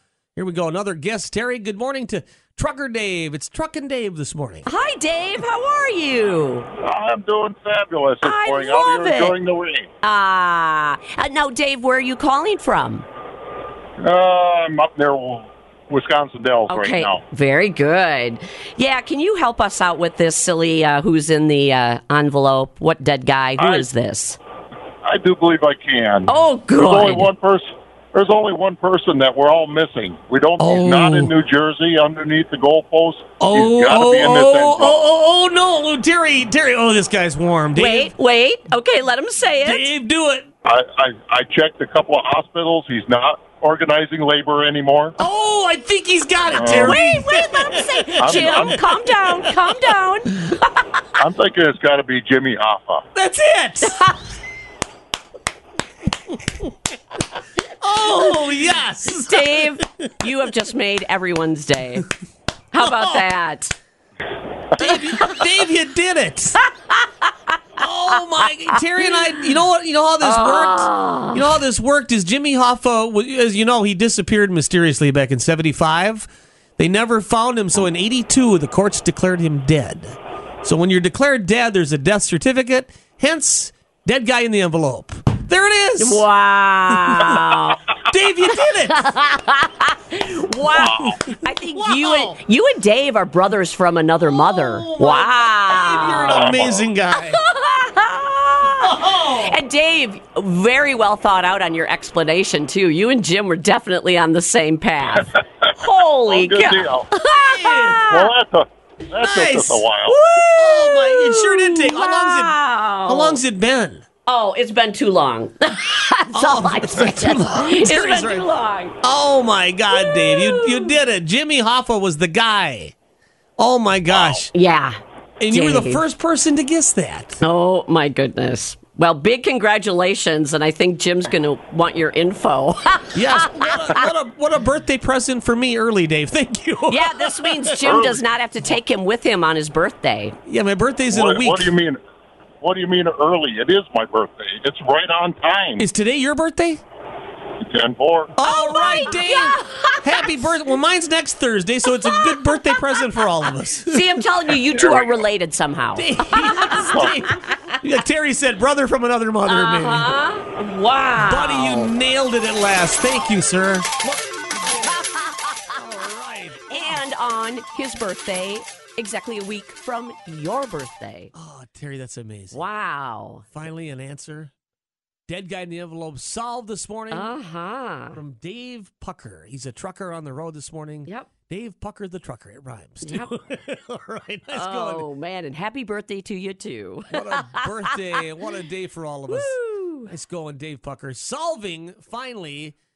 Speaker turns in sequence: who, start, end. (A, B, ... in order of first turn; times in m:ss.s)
0:00.4-0:04.7 A
0:04.6-0:06.7 B
0:06.8-0:09.9 C
0:08.2-0:09.4 B
0:10.0-0:13.0 B
0:14.0-0:17.2 C
0:16.7-0:24.4 B
0:23.6-0:23.8 C
0:25.0-0:35.0 C
0:26.2-0:27.3 B
0:30.6-0:31.3 A
0:33.4-0:38.1 A
0:37.8-0:39.9 B
0:39.6-0:40.5 A
0:40.6-0:45.2 C
0:45.2-0:49.8 A
0:46.5-0:47.0 C
0:46.6-0:50.8 B
0:48.2-0:48.8 C
0:51.2-0:53.0 C
0:53.1-0:54.0 A
0:53.8-0:54.2 B
0:57.8-0:59.8 A
0:59.2-1:02.1 B
1:02.7-1:03.7 B
1:02.8-1:03.2 A
1:04.7-1:06.6 A
1:04.8-1:05.4 B
1:06.8-1:07.3 B
1:07.8-1:26.2 A
1:10.2-1:11.4 B
1:26.0-1:27.8 B
1:27.0-1:27.4 A
1:28.0-1:29.1 A
1:28.9-1:48.3 B
1:30.7-1:32.4 A
1:34.2-1:37.4 A
1:36.2-1:36.8 C
1:38.8-1:39.6 A
1:46.3-1:47.1 C
1:47.2-1:48.1 A
1:48.1-1:50.1 C
1:49.2-1:54.0 A
1:50.1-1:53.4 B
1:54.2-1:58.9 B
1:56.3-1:58.5 A
1:59.0-2:02.9 A
1:59.9-2:01.0 B
2:03.6-2:04.5 A
2:04.1-2:04.4 C
2:04.5-2:05.0 B
2:05.4-2:07.4 A
2:05.5-2:06.0 B
2:07.4-2:14.1 B
2:13.1-2:18.0 A
2:16.9-2:20.4 B
2:17.8-2:18.2 C
2:20.4-2:21.7 A
2:21.1-2:22.0 C
2:22.6-2:25.8 C
2:25.8-2:26.8 A
2:27.6-2:28.3 C
2:28.4-2:34.2 A
2:28.4-2:30.5 B
2:32.0-2:33.3 B
2:33.8-2:37.7 B
2:34.8-2:35.2 C
2:35.9-2:40.2 A
2:36.8-2:37.1 C
2:39.4-2:41.9 B
2:41.2-2:47.0 A
2:46.7-2:51.3 B
2:51.3-2:52.6 A
2:52.5-2:53.4 B
2:53.5-2:54.5 A
2:55.3-2:57.4 A
2:57.1-2:58.2 B
2:58.1-3:05.1 A
3:03.0-3:03.3 B
3:04.5-3:08.2 B
3:07.1-3:12.8 A
3:09.3-3:10.1 B